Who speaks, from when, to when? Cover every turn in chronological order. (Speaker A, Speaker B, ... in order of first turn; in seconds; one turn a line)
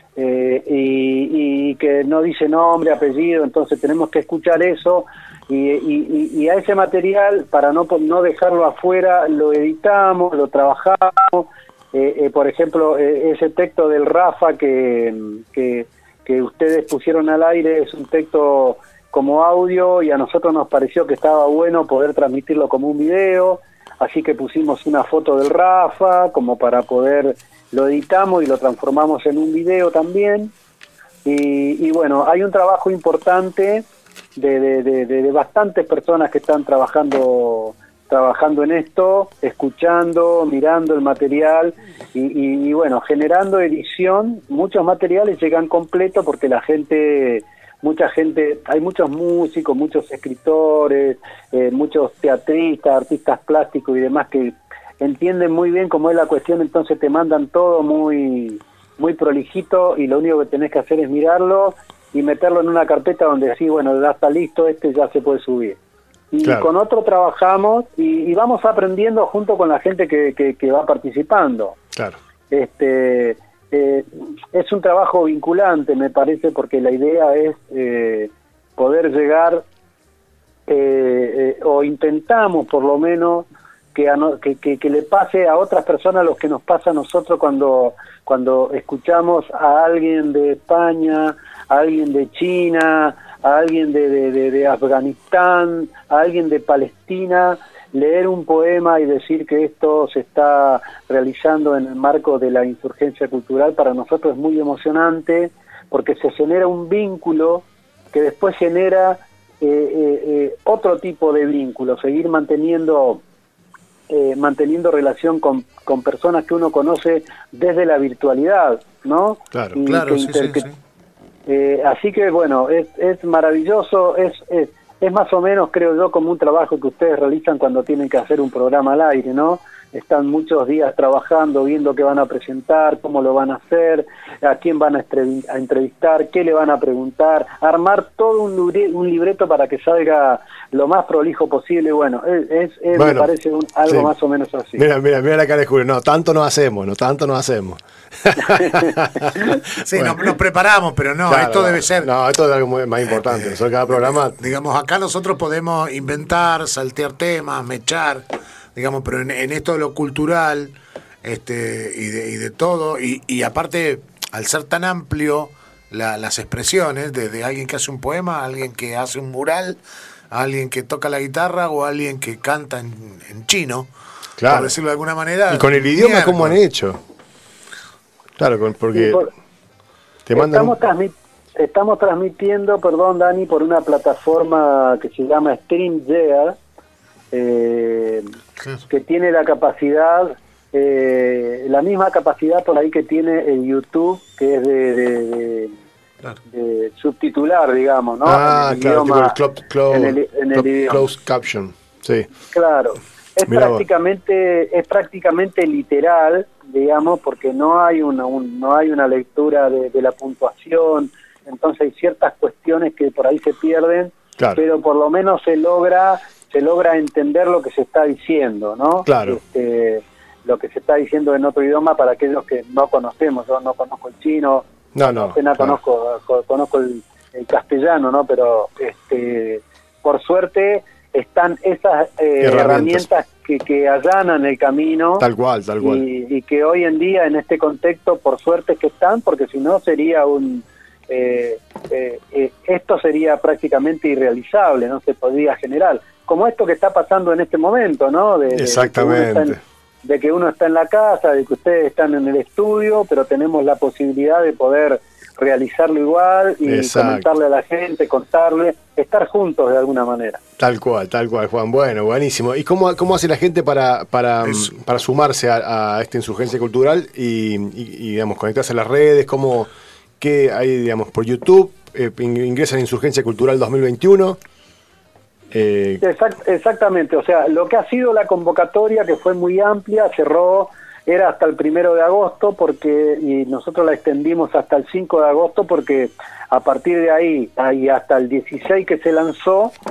Speaker A: 0.1-30.5
Speaker A: 31.2-33.8
Speaker A: 34.4-65.8
Speaker A: 66.3-71.8
Speaker B: 66.4-66.7
Speaker A: 72.5-79.7
Speaker A: 80.7-113.2
Speaker A: 114.1-120.7
Speaker B: 119.5-119.8
Speaker C: 119.8-120.7
Speaker A: 121.5-144.8
Speaker B: 142.9-143.3
Speaker B: 143.9-144.1
Speaker B: 144.8-150.3
Speaker A: 148.5-148.8
Speaker C: 149.8-152.1
Speaker B: 151.3-154.4
Speaker C: 153.2-169.8
Speaker C: 170.3-173.9
Speaker B: 174.4-174.8
Speaker C: 174.4-176.6
Speaker B: 175.5-177.0
Speaker B: 178.4-179.2
Speaker A: 178.9-179.3
Speaker B: 180.2-180.8
Speaker A: 180.3-186.6
Speaker A: 187.3-188.3
Speaker A: 188.9-195.8
Speaker A: 196.5-199.3
Speaker B: 198.2-202.3
Speaker A: 199.9-201.1
Speaker A: 202.5-235.3
Speaker B: 203.5-203.8
Speaker B: 219.1-219.4
Speaker B: 224.9-225.8
Speaker B: 232.4-233.1
Speaker B: 235.2-236.0
Speaker A: 235.8-260.4
Speaker B: 248.5-249.6
Speaker B: 256.6-257.2
Speaker B: 260.6-269.7
Speaker C: 264.4-264.7
Speaker B: 270.2-274.4
Speaker B: 275.5-276.0
Speaker A: 276.0-289.7